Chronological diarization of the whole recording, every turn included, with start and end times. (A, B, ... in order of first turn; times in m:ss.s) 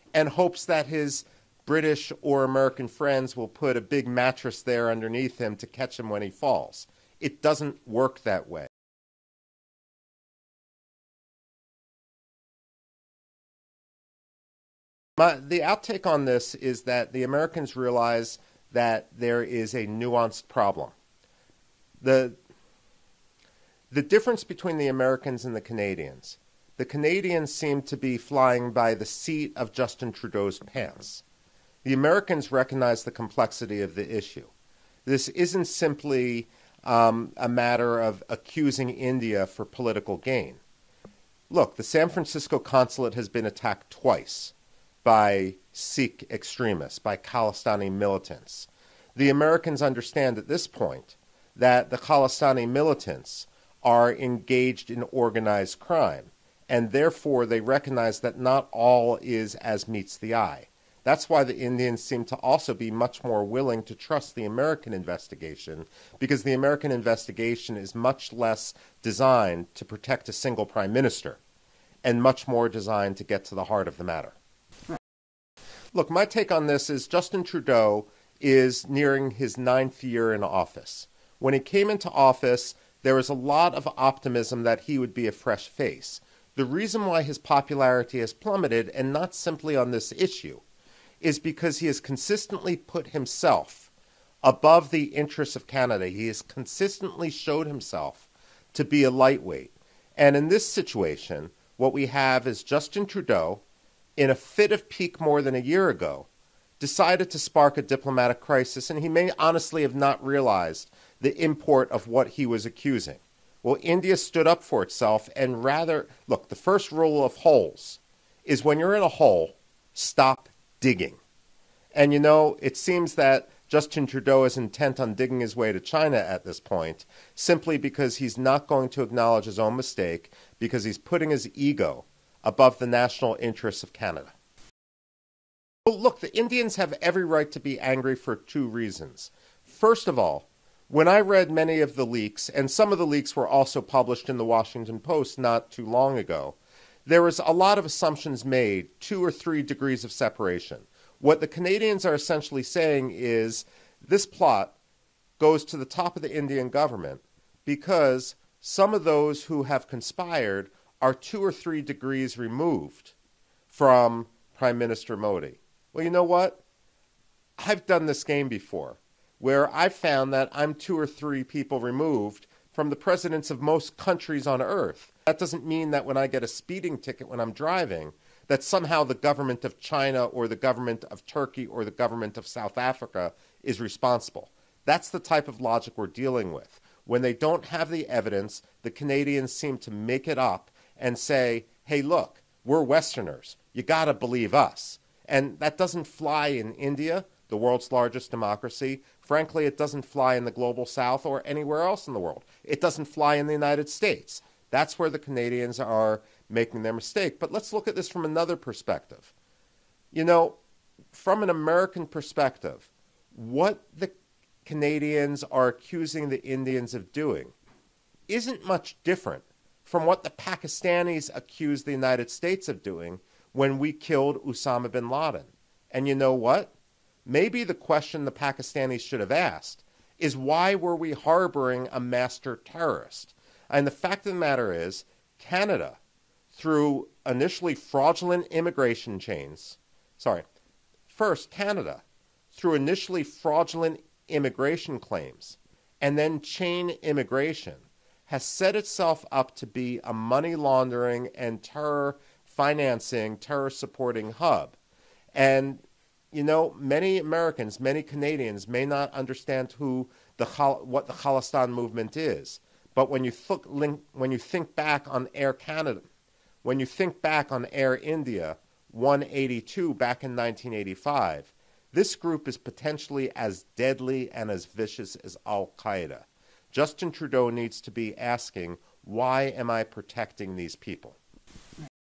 0:00.1-0:08.7 A
0:15.2-0:20.9 A
0:22.0-0:22.4 A
0:23.9-0:31.2 A
0:31.8-0:34.5 A
0:35.0-0:40.6 A
0:41.5-1:11.4 A
1:12.0-1:14.4 A
1:15.9-1:30.6 A
1:31.2-1:33.9 A
1:34.4-1:43.6 A
1:44.2-1:46.3 A
1:46.8-2:01.2 A
2:01.9-2:14.3 A
2:15.8-2:34.7 A
2:35.4-2:43.1 A
2:43.7-2:46.6 A
2:47.6-3:29.3 A
3:30.1-3:30.6 A
3:31.1-3:37.5 A
3:38.3-3:46.7 A
3:47.2-3:56.0 A
3:56.5-4:00.4 A
4:01.1-4:14.8 A
4:15.3-4:26.0 A
4:26.6-4:41.2 A